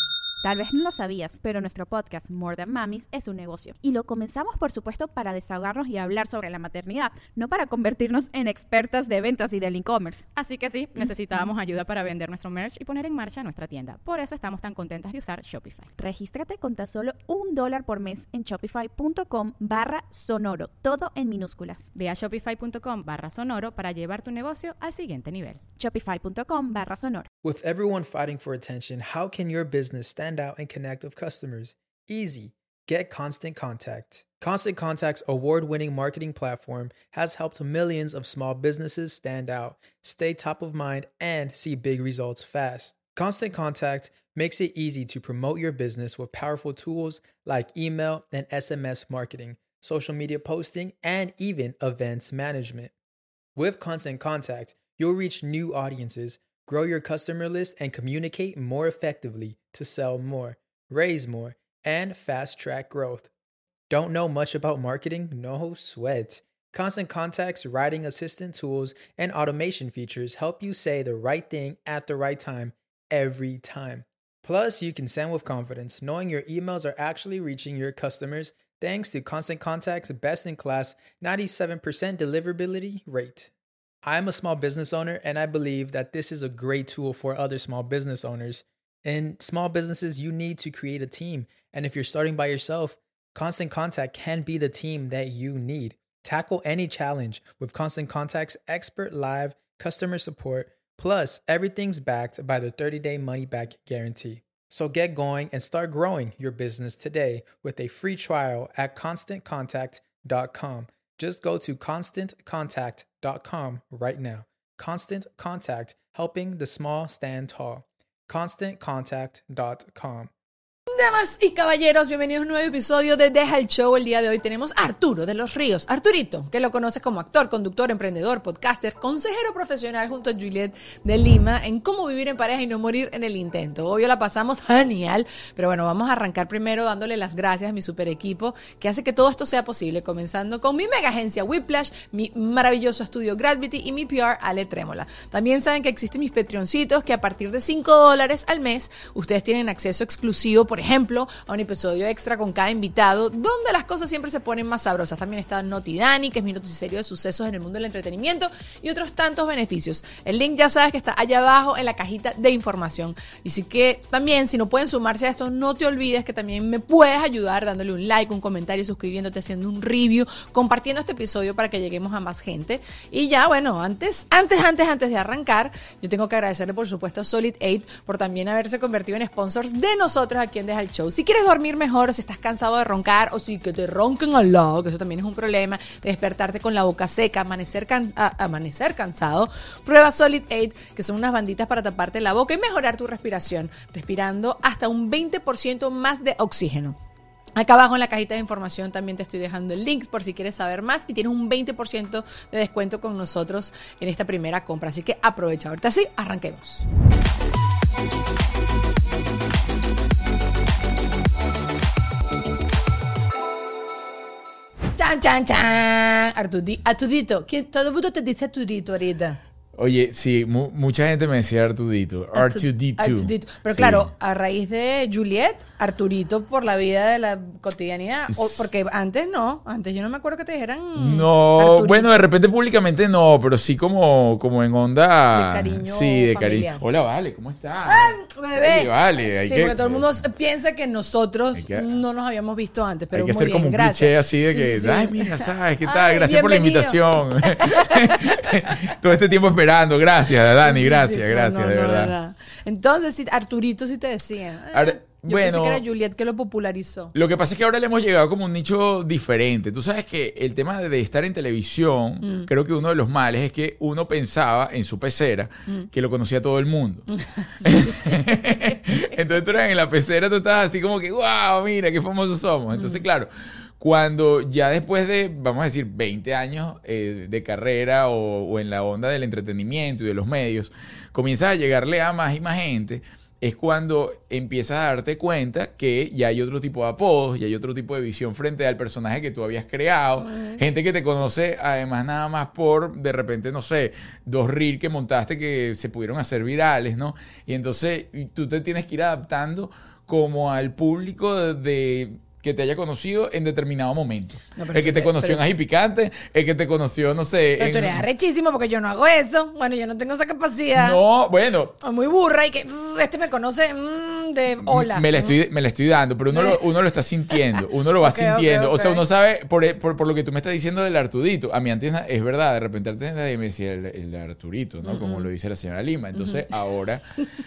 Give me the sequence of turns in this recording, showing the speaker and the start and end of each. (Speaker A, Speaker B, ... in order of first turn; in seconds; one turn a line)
Speaker A: 0.4-10.2
Speaker B: 10.3-15.9
Speaker A: 16.0-21.9
Speaker B: 21.9-25.6
Speaker A: 25.8-27.3
Speaker C: 27.4-52.9
Speaker C: 53.6-63.3
Speaker C: 63.9-83.5
Speaker C: 84.0-120.3
Speaker D: 120.9-197.0
Speaker D: 197.6-206.9
Speaker D: 215.0-219.4
Speaker E: 219.8-224.1
Speaker D: 222.3-232.1
Speaker E: 228.3-228.7
Speaker E: 231.0-240.2
Speaker D: 235.3-236.8
Speaker D: 237.9-248.8
Speaker E: 241.6-242.0
Speaker E: 243.1-252.1
Speaker D: 250.6-257.1
Speaker E: 254.7-255.8
Speaker E: 257.1-267.1
Speaker D: 262.2-262.5
Speaker D: 267.1-268.8
Speaker E: 267.6-308.1
Speaker D: 272.8-273.0
Speaker D: 290.2-290.6
Speaker D: 304.6-305.4
Speaker D: 307.6-311.0
Speaker E: 310.8-311.8
Speaker D: 311.8-315.4
Speaker E: 314.6-327.0
Speaker D: 316.3-316.6
Speaker D: 318.0-319.0
Speaker D: 324.9-325.3
Speaker D: 326.2-326.4